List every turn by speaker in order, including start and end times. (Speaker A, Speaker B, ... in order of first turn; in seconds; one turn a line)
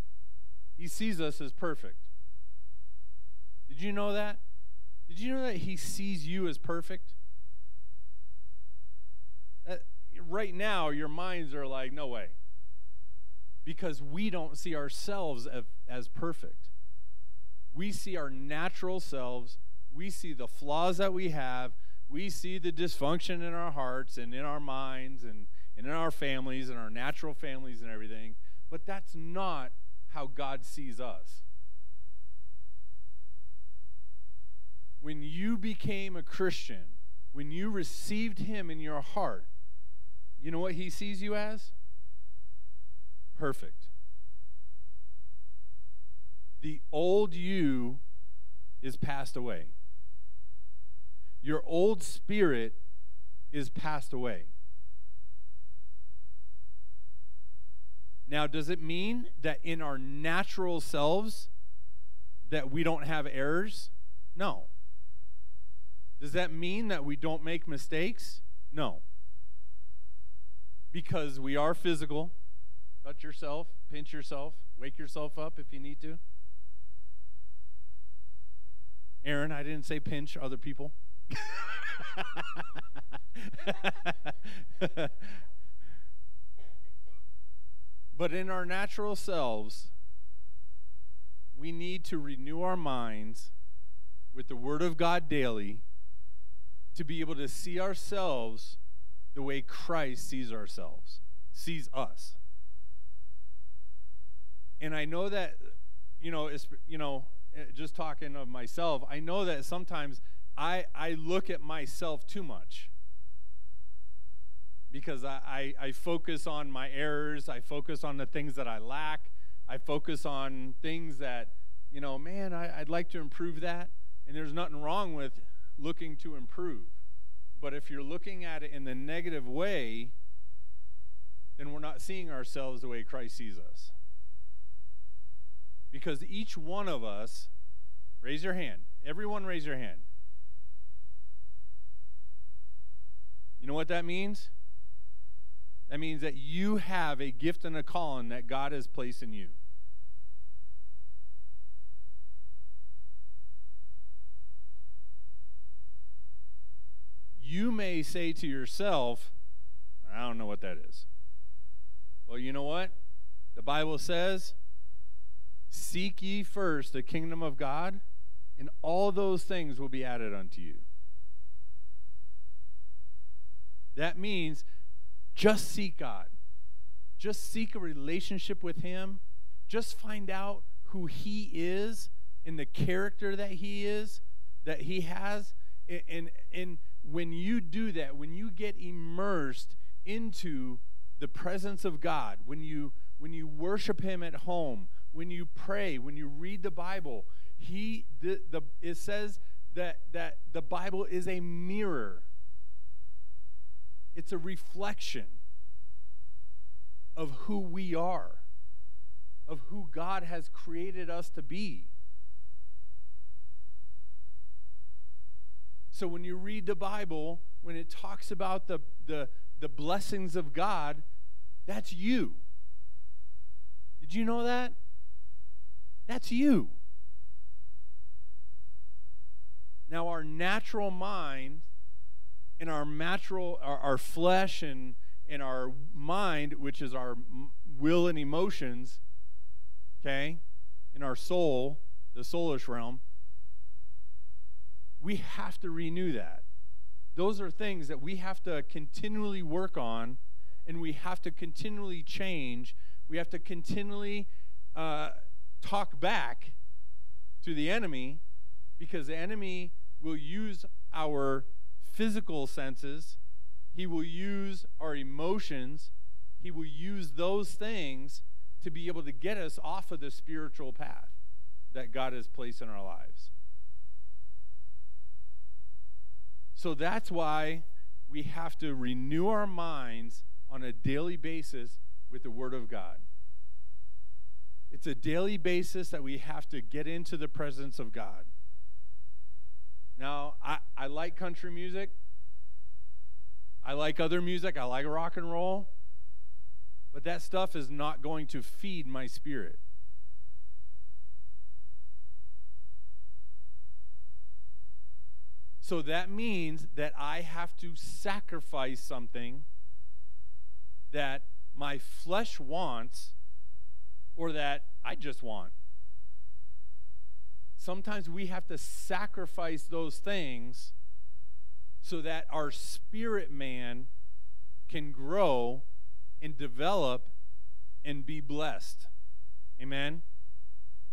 Speaker A: 0.8-2.1
Speaker A: 3.7-4.4
Speaker A: 5.1-7.1
Speaker A: 9.6-12.3
Speaker A: 13.6-16.7
Speaker A: 17.7-31.4
Speaker A: 35.0-39.5
Speaker A: 40.4-41.7
Speaker A: 43.3-43.9
Speaker A: 46.6-48.0
Speaker A: 48.8-49.7
Speaker A: 51.4-52.8
Speaker A: 53.5-54.5
Speaker A: 58.3-61.5
Speaker A: 62.5-64.7
Speaker A: 66.2-69.0
Speaker A: 70.9-72.3
Speaker A: 73.0-76.2
Speaker A: 79.2-82.7
Speaker A: 83.3-85.4
Speaker A: 88.1-89.9
Speaker A: 91.5-93.5
Speaker A: 94.3-95.8
Speaker A: 96.9-98.8
Speaker A: 99.3-102.4
Speaker A: 104.8-112.9
Speaker A: 114.9-127.0
Speaker A: 127.5-130.1
Speaker A: 131.6-133.9
Speaker A: 135.9-137.5
Speaker A: 138.2-140.1
Speaker A: 143.6-144.5
Speaker A: 145.9-149.6
Speaker A: 157.4-159.3
Speaker A: 160.0-161.1
Speaker A: 162.2-162.9
Speaker A: 163.5-164.6
Speaker A: 165.7-168.0
Speaker A: 168.6-170.8
Speaker A: 173.9-174.6
Speaker A: 175.3-176.3
Speaker A: 177.2-202.3
Speaker A: 204.1-205.4
Speaker A: 207.2-208.4
Speaker A: 209.5-211.9
Speaker A: 215.9-221.0
Speaker A: 221.7-222.4
Speaker A: 224.0-224.8
Speaker A: 226.1-226.8
Speaker A: 229.9-231.7
Speaker A: 232.6-239.0
Speaker A: 240.0-243.0
Speaker A: 245.0-246.4
Speaker A: 247.1-256.6
Speaker A: 257.4-258.2
Speaker A: 258.8-263.2
Speaker A: 263.7-271.2
Speaker A: 271.7-273.3
Speaker A: 276.5-283.1
Speaker A: 284.7-288.3
Speaker A: 289.9-291.9
Speaker A: 293.6-295.7
Speaker A: 296.9-299.6
Speaker A: 305.6-309.5
Speaker A: 310.9-313.1
Speaker A: 314.1-315.5
Speaker A: 317.6-320.7
Speaker A: 321.8-323.9
Speaker A: 324.7-325.7
Speaker A: 326.2-327.1
Speaker A: 327.8-328.9
Speaker A: 329.6-330.0